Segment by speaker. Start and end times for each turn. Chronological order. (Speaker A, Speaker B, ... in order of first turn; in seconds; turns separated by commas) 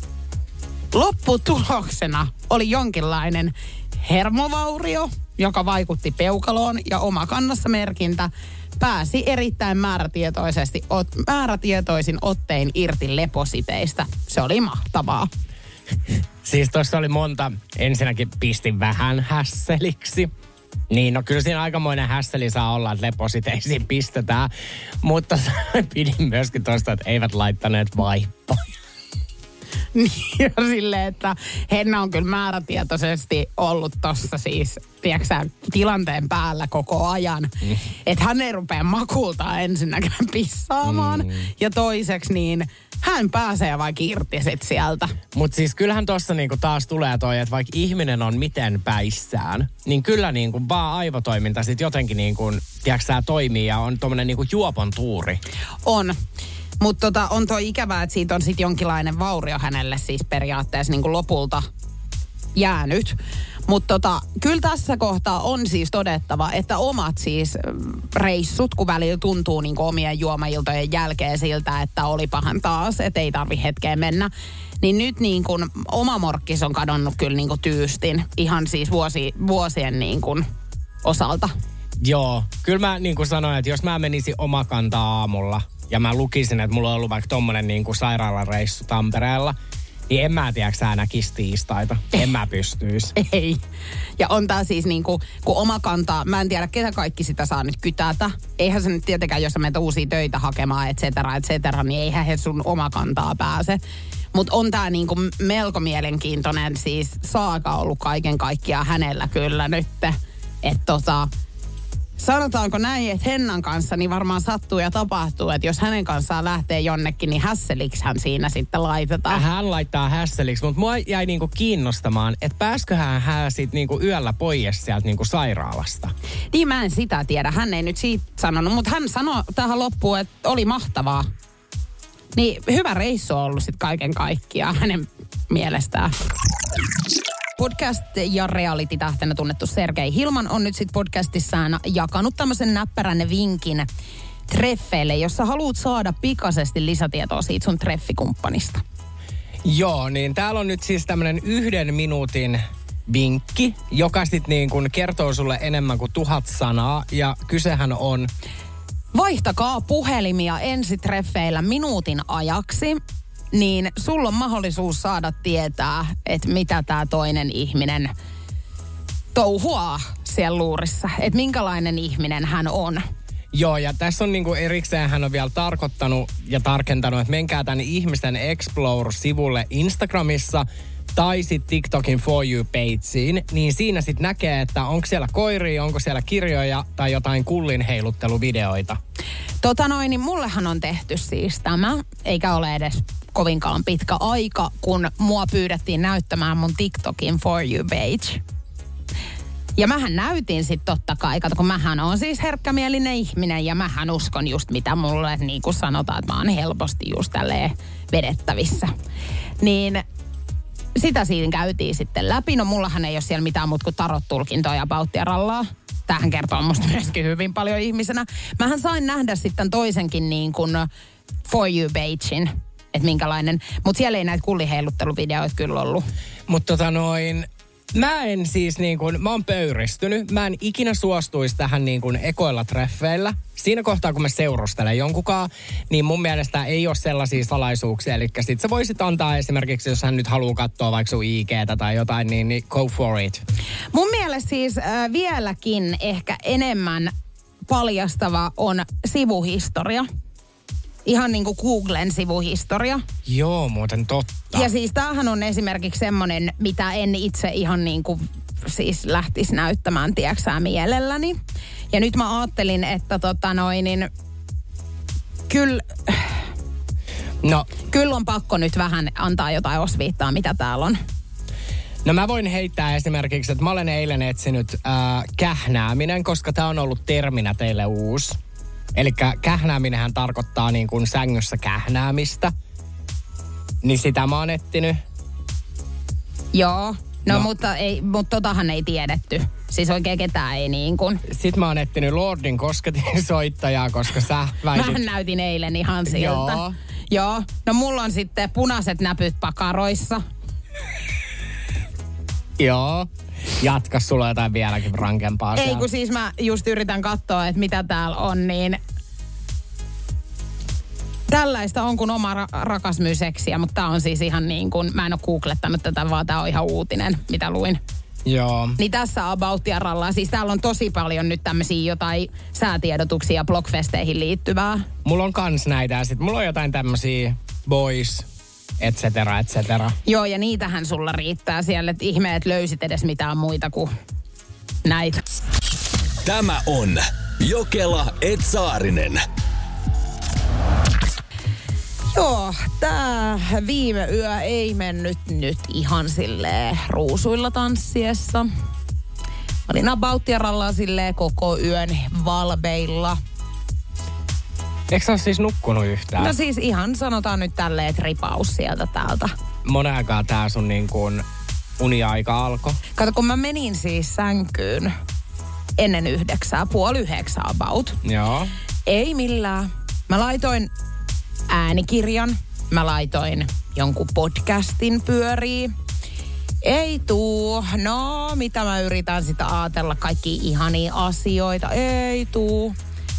Speaker A: 0.9-15.3, Speaker B: 16.4-20.3, Speaker B: 20.9-24.5, Speaker B: 25.0-28.6, Speaker A: 29.9-37.5, Speaker A: 38.0-45.1, Speaker B: 40.8-41.5, Speaker B: 45.3-55.4, Speaker A: 55.9-56.2, Speaker A: 56.8-61.6, Speaker A: 62.5-80.5, Speaker A: 81.0-81.5, Speaker B: 82.0-89.5, Speaker B: 90.1-93.1, Speaker A: 93.2-93.6, Speaker A: 94.2-103.8, Speaker A: 104.3-111.3, Speaker A: 112.2-119.4, Speaker B: 119.3-126.1, Speaker A: 126.5-131.3, Speaker A: 132.3-136.1, Speaker A: 137.6-143.9, Speaker A: 144.5-148.8, Speaker B: 149.6-158.3, Speaker A: 159.1-163.0, Speaker A: 163.5-168.1, Speaker A: 169.3-173.0, Speaker B: 173.5-189.0, Speaker A: 189.6-198.4, Speaker A: 199.8-208.9, Speaker A: 209.6-210.0, Speaker A: 210.9-220.9, Speaker A: 221.4-226.1, Speaker B: 226.5-243.4, Speaker A: 243.9-247.1, Speaker A: 247.7-250.1, Speaker A: 251.1-253.0, Speaker B: 253.2-254.7, Speaker A: 254.5-261.4, Speaker A: 261.9-264.1, Speaker A: 265.5-266.4, Speaker B: 267.4-267.7, Speaker A: 267.9-271.0, Speaker B: 272.0-278.4, Speaker B: 278.9-282.5, Speaker B: 283.8-285.0, Speaker A: 286.5-291.2, Speaker B: 291.3-295.0, Speaker A: 294.7-300.2, Speaker B: 296.1-296.8, Speaker B: 302.6-305.9, Speaker A: 305.6-308.8, Speaker A: 311.3-317.8, Speaker B: 318.2-318.8, Speaker A: 318.8-324.9, Speaker B: 325.0-328.2, Speaker B: 328.8-329.9, Speaker A: 330.1-333.9, Speaker A: 334.8-335.2, Speaker C: 336.2-339.2, Speaker A: 342.1-348.5, Speaker A: 349.7-353.2, Speaker B: 354.9-356.3, Speaker A: 356.2-359.3, Speaker B: 359.6-361.2, Speaker B: 361.8-362.8, Speaker A: 362.9-364.9, Speaker A: 365.8-368.0, Speaker B: 368.0-368.5, Speaker A: 368.9-370.7, Speaker A: 371.5-375.7, Speaker A: 376.6-382.8